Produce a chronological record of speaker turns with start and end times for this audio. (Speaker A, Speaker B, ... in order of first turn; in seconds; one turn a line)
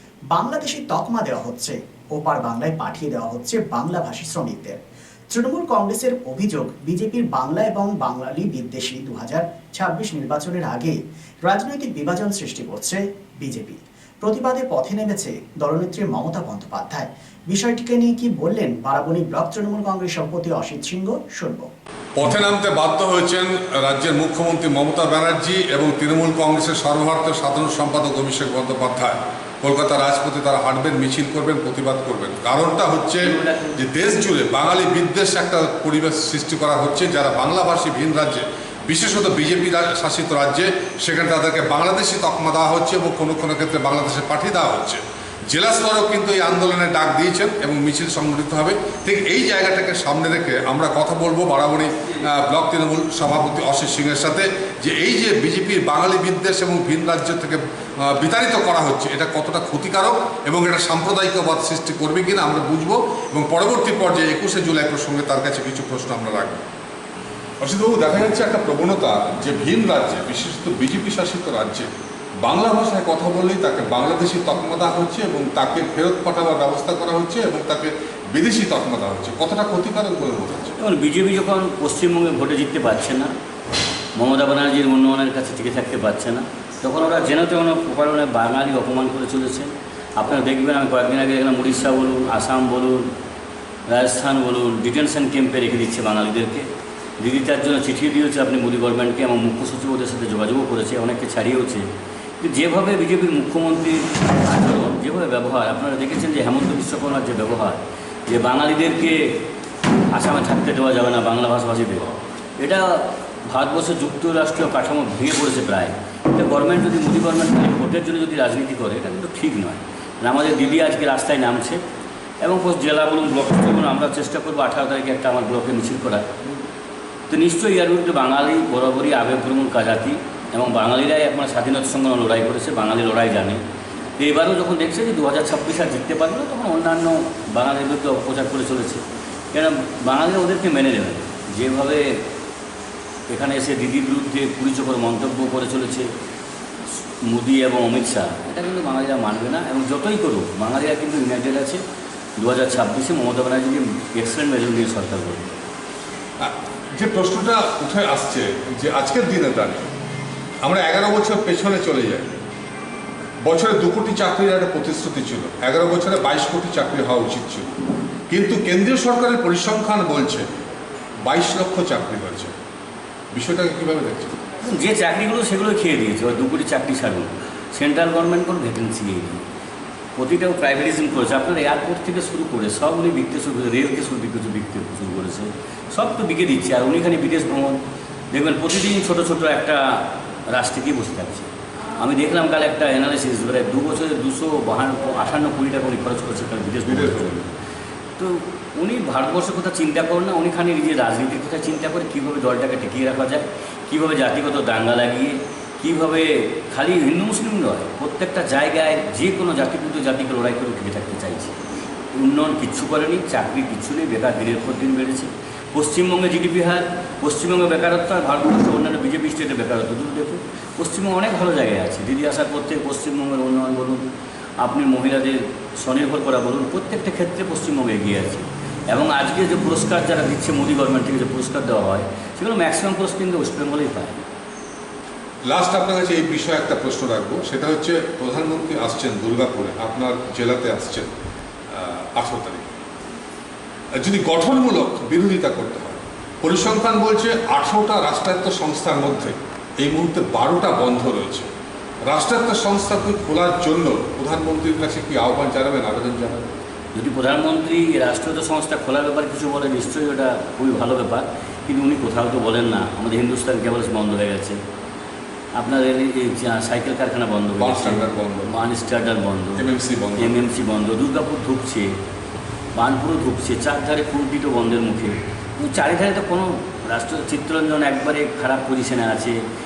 Speaker A: 0.3-4.8
Speaker A: 5.3-21.7
Speaker B: 22.2-66.6
Speaker C: 33.2-33.8
Speaker B: 67.6-71.9
Speaker B: 72.4-80.7
Speaker C: 80.8-83.3
Speaker C: 84.2-93.1
Speaker C: 93.9-96.7
Speaker C: 97.2-101.8
Speaker C: 102.4-109.4
Speaker C: 110.1-121.8
Speaker C: 122.4-126.3
Speaker C: 127.3-133.6
Speaker C: 134.2-139.0
Speaker C: 139.5-142.2
Speaker C: 143.3-146.1
Speaker C: 147.2-151.8
Speaker C: 152.4-155.6
Speaker B: 156.4-159.9
Speaker B: 160.6-162.4
Speaker B: 163.4-167.7
Speaker B: 168.3-170.4
Speaker B: 171.2-172.5
Speaker B: 173.3-174.4
Speaker C: 174.6-179.4
Speaker C: 180.2-197.5
Speaker B: 196.8-197.4
Speaker C: 198.2-211.5
Speaker C: 212.1-224.0
Speaker C: 224.6-234.3
Speaker B: 235.5-241.1
Speaker B: 241.7-242.7
Speaker B: 243.9-251.5
Speaker B: 252.1-256.4
Speaker C: 256.9-264.6
Speaker C: 265.6-271.9
Speaker B: 267.6-268.5
Speaker B: 269.6-270.5
Speaker C: 272.7-279.4